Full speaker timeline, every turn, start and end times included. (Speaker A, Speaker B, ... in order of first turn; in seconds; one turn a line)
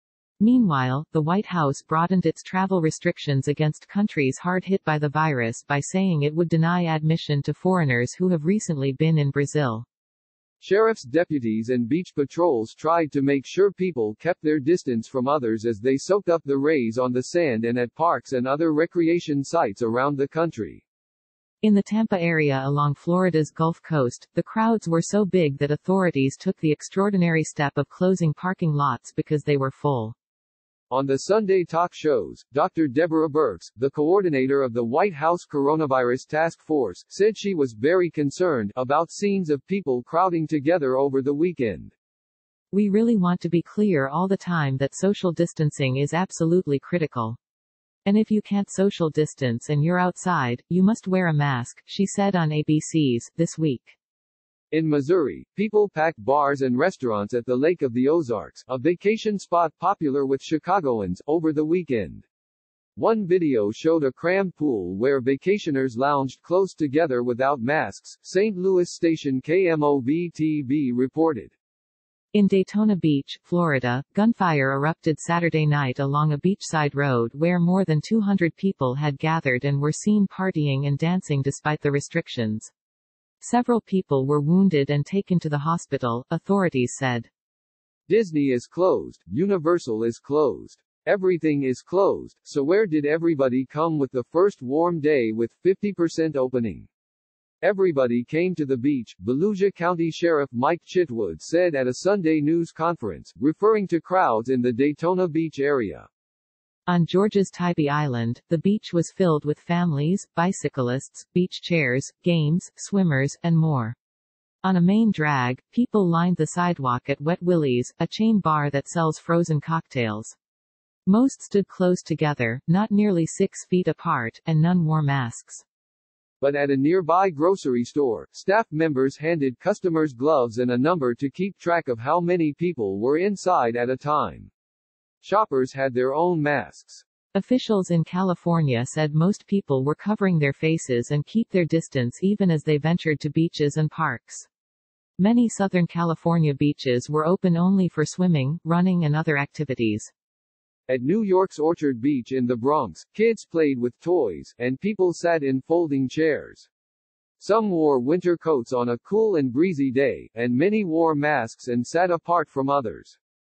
Speaker A: 0.4-9.9
Speaker B: 10.6-20.8
Speaker A: 21.6-30.1
Speaker B: 30.9-41.9
Speaker A: 42.7-47.4
Speaker A: 48.0-54.0
Speaker B: 54.7-62.2
Speaker B: 63.0-71.5
Speaker A: 72.3-82.7
Speaker A: 83.4-87.3
Speaker B: 88.1-96.9
Speaker B: 97.6-106.1
Speaker A: 106.9-114.0
Speaker A: 114.6-120.4
Speaker A: 121.1-125.6
Speaker B: 126.4-134.5
Speaker B: 135.2-137.0
Speaker A: 137.3-144.5
Speaker A: 145.2-150.1
Speaker B: 150.9-156.7
Speaker B: 157.4-163.2